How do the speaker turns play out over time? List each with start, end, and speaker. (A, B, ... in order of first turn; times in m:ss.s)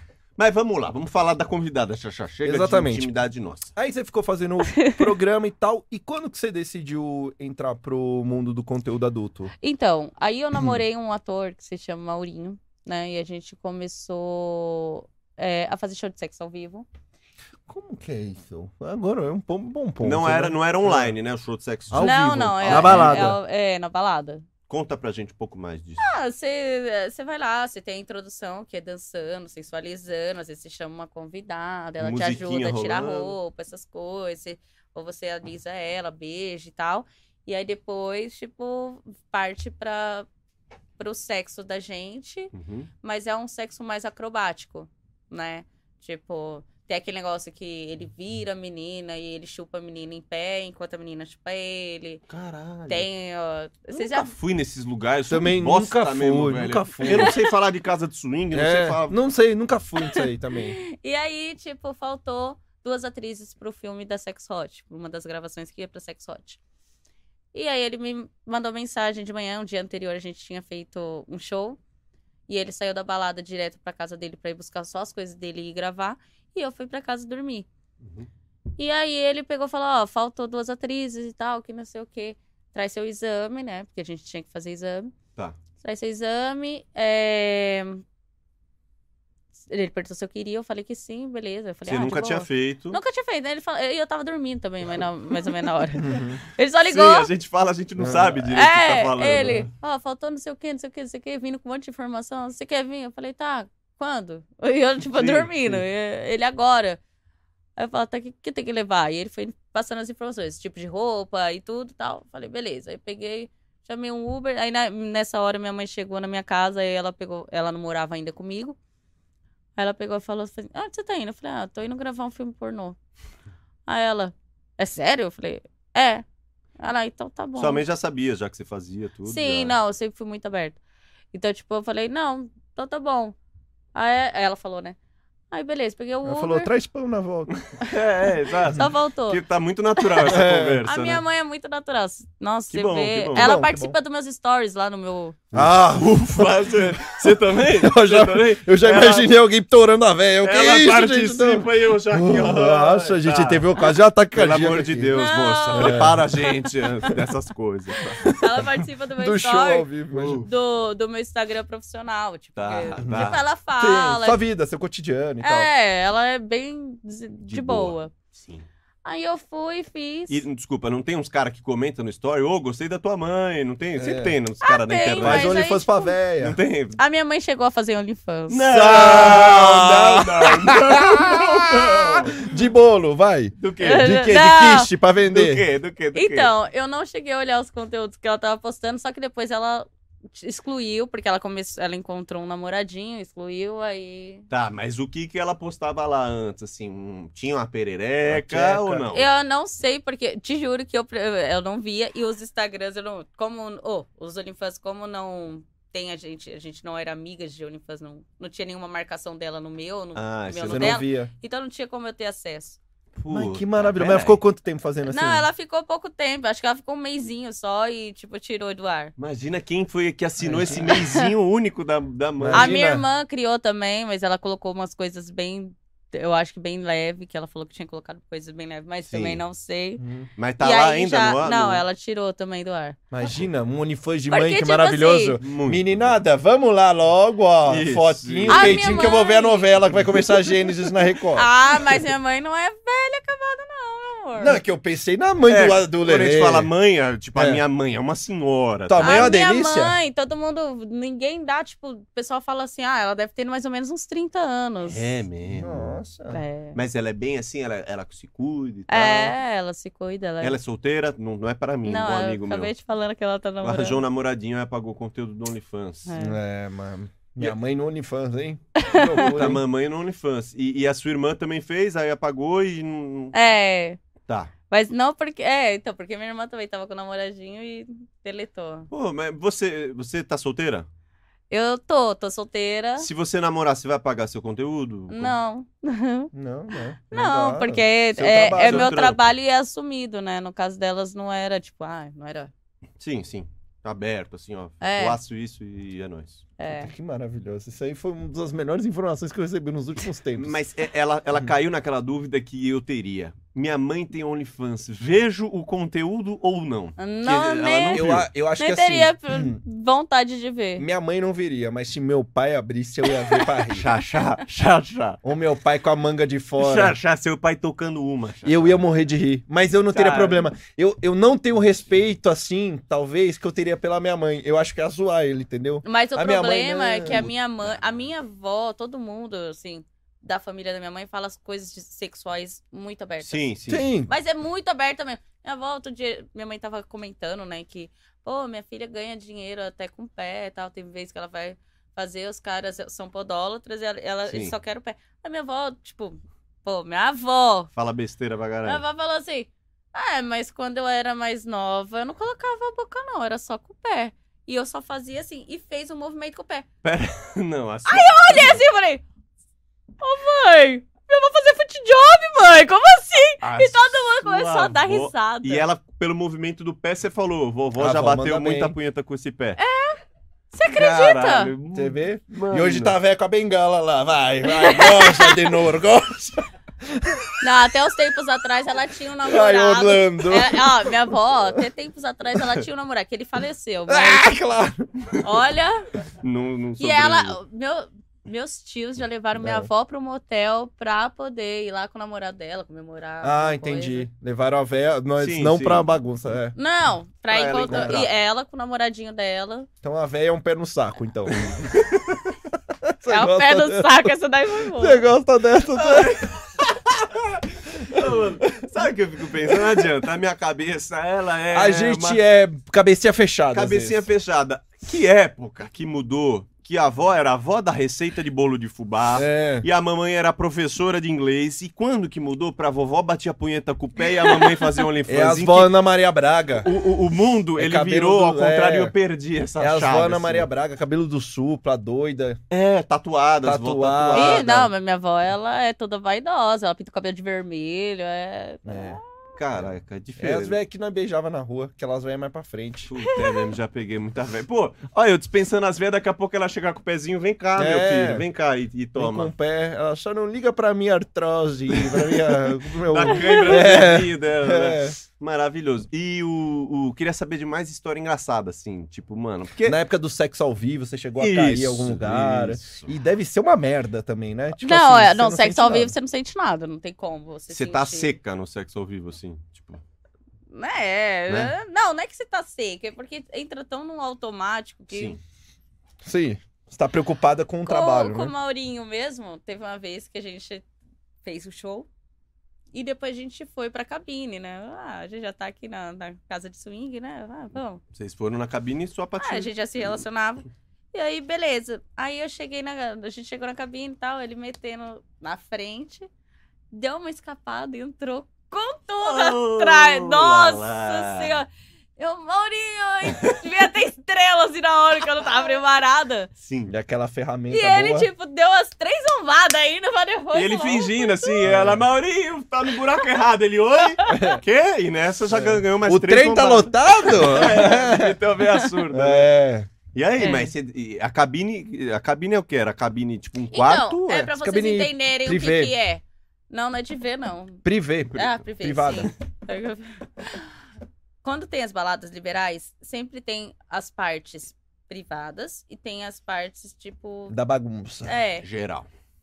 0:00.4-0:03.7 A
0:02.4-0:03.1 B
0:03.7-0:09.5 B
0:04.6-0:05.1 C
0:09.6-0:16.8 C
0:17.7-0:21.2 B
0:20.0-0:23.3 A
0:21.9-0:23.4 B
0:22.0-0:24.4 C
0:24.7-0:26.0 A
0:26.0-0:40.3 C
0:32.0-0:33.3 A
0:41.0-0:52.2 C
0:42.5-0:42.9 A
0:52.3-0:53.0 A
0:52.9-0:54.3 C
0:53.9-0:59.2 A
0:55.3-0:57.3 B
0:57.0-0:57.4 C
0:58.5-1:00.8 B
1:00.0-1:06.6 C
1:07.5-1:11.8 C
1:12.5-1:17.7 C
1:18.0-1:18.3 A
1:18.8-1:25.1 C
1:25.8-1:28.0 C
1:29.7-1:37.3 C
1:31.8-1:33.0 A
1:36.0-1:36.4 B
1:36.8-1:39.6 A
1:38.0-1:38.3 B
1:38.4-1:47.0 C
1:39.4-1:39.6 B
1:45.1-1:45.8 A
1:47.8-1:58.8 C
1:59.8-2:03.0 C
2:03.9-2:06.2 C
2:06.8-2:07.8 C
2:07.6-2:09.8 A
2:09.3-2:10.8 C
2:11.3-2:13.3 C
2:13.9-2:15.0 C
2:15.5-2:16.7 C
2:16.2-2:17.5 B
2:17.5-2:21.2 A
2:18.7-2:19.4 C
2:20.0-2:25.4 C
2:20.2-2:20.8 B
2:22.7-2:23.6 A
2:23.3-2:24.0 B
2:25.5-2:29.3 A
2:25.5-2:35.2 B
2:30.4-2:33.8 A
2:34.3-2:38.3 A
2:35.1-2:36.5 C
2:35.7-2:36.2 B
2:38.0-2:39.9 C
2:38.2-2:40.4 B
2:40.1-2:40.5 A
2:40.4-2:44.4 C
2:42.6-2:43.4 A
2:43.0-2:45.7 B
2:45.4-2:48.1 C
2:47.4-2:48.7 A
2:49.0-2:50.4 C
2:50.3-2:55.7 A
2:54.0-2:54.4 B
2:54.6-2:56.1 C
2:55.2-2:56.6 B
2:56.4-2:57.0 A
2:57.0-2:58.7 C
2:58.5-3:02.4 A
2:58.7-3:05.6 B
3:03.6-3:04.1 A
3:03.8-3:04.9 C
3:05.2-3:06.5 A
3:06.1-3:14.5 C
3:14.5-3:19.3 A
3:18.3-3:19.1 B
3:19.1-3:32.8 C
3:30.1-3:31.0 A
3:30.7-3:31.3 B
3:33.2-3:34.4 A
3:33.3-3:35.5 B
3:35.0-3:39.1 C
3:39.2-3:42.8 A
3:40.4-3:41.0 B
3:40.9-3:41.2 C
3:42.4-3:43.0 B
3:42.5-3:50.0 C
3:49.1-3:49.4 A
3:50.0-3:50.3 B
3:50.4-3:51.8 A
3:50.6-3:53.0 C
3:53.1-4:01.5 B
3:54.3-3:55.4 C
3:55.4-3:56.2 A
3:57.6-3:59.2 A
3:58.5-4:00.3 C
3:59.9-4:00.2 A
4:01.3-4:04.6 C
4:04.4-4:06.7 B
4:05.5-4:09.3 A
4:07.4-4:07.6 B
4:08.9-4:10.0 B
4:09.0-4:15.0 C
4:14.8-4:16.0 A
4:15.5-4:16.4 B
4:16.3-4:16.8 C
4:16.7-4:19.4 A
4:18.9-4:20.6 C
4:20.4-4:22.7 A
4:21.8-4:24.0 C
4:23.6-4:26.1 A
4:26.1-4:26.4 C
4:26.2-4:29.6 B
4:28.8-4:29.3 C
4:29.2-4:33.3 A
4:33.3-4:34.0 C
4:34.3-4:34.5 A
4:34.7-4:38.9 C
4:38.9-4:40.9 A
4:41.5-4:43.1 C
4:43.0-4:45.4 A
4:45.1-4:46.3 C
4:46.3-4:49.0 B
4:47.1-4:52.5 C
4:48.4-4:49.2 A
4:53.0-4:56.4 A
4:54.8-4:55.2 C
4:56.6-4:56.9 C
4:56.7-5:00.6 B
5:00.3-5:08.3 A
5:07.0-5:10.8 C
5:07.9-5:09.6 B
5:10.8-5:13.8 B
5:13.2-5:13.5 C
5:13.7-5:15.2 A
5:15.2-5:17.0 B
5:16.6-5:18.8 A
5:18.4-5:27.3 B
5:19.9-5:20.5 A
5:25.8-5:33.5 C
5:27.1-5:28.0 A
5:33.2-5:33.9 A
5:33.7-5:34.1 B
5:34.1-5:47.7 C
5:44.2-5:44.5 A
5:47.7-5:48.8 A
5:48.6-5:56.6 C
5:56.8-5:58.6 A
5:57.8-5:59.0 C
6:00.0-6:05.6 C
6:03.4-6:09.6 A
6:07.8-6:08.7 B
6:09.6-6:10.0 C
6:10.5-6:11.5 C
6:10.7-6:13.0 A
6:11.7-6:17.3 B
6:14.5-6:15.5 C
6:17.4-6:24.3 C
6:19.2-6:21.6 B
6:23.9-6:24.9 B
6:25.2-6:25.8 C
6:26.2-6:27.4 A
6:26.8-6:34.1 C
6:29.4-6:29.7 B
6:33.2-6:36.6 B
6:35.2-6:35.9 A
6:36.5-6:39.7 C
6:37.3-6:38.1 A
6:37.6-6:38.0 B
6:39.8-6:41.9 B
6:41.3-6:42.2 A
6:42.8-6:44.1 B
6:43.1-6:45.0 C
6:44.7-6:46.2 B
6:45.7-6:52.2 A
6:47.8-6:48.3 B
6:49.5-6:49.9 B
6:51.5-6:54.0 B
6:53.5-7:05.7 A
6:59.1-6:59.7 B
7:05.1-7:06.7 B
7:06.6-7:10.5 A
7:07.5-7:08.9 B
7:09.6-7:12.4 B
7:12.5-7:14.5 A
7:13.4-7:14.7 B
7:14.1-7:19.0 C
7:18.6-7:19.0 B
7:19.4-7:20.6 A
7:19.5-7:22.9 B
7:22.9-7:29.3 A
7:23.1-7:23.4 C
7:27.6-7:28.2 B
7:29.0-7:35.0 B
7:32.8-7:39.8 A
7:39.6-7:45.9 B
7:41.2-7:42.9 A
7:44.6-7:48.1 C
7:47.5-7:49.8 A
7:50.5-7:55.2 C
7:51.3-7:51.5 A
7:54.9-7:55.2 A
7:56.0-7:58.3 B
7:57.6-8:00.6 C
8:01.2-8:01.9 C
8:02.7-8:07.8 C
8:07.9-8:09.5 A
8:09.2-8:16.1 C
8:16.7-8:21.5 C
8:19.0-8:21.4 A
8:22.0-8:26.3 C
8:26.4-8:26.7 A
8:26.7-8:28.1 B
8:27.5-8:31.5 C
8:30.3-8:39.3 A
8:31.4-8:31.8 B
8:34.0-8:34.3 C
8:34.1-8:34.4 B
8:35.3-8:38.2 B
8:38.9-8:39.7 B
8:39.9-8:44.3 A
8:40.2-8:40.5 C
8:43.5-8:47.6 C
8:44.3-8:45.7 B
8:47.6-8:49.1 B
8:48.1-8:50.4 C
8:51.2-8:57.4 C
8:57.3-8:58.2 B
8:58.0-8:58.4 C
8:58.4-8:58.9 A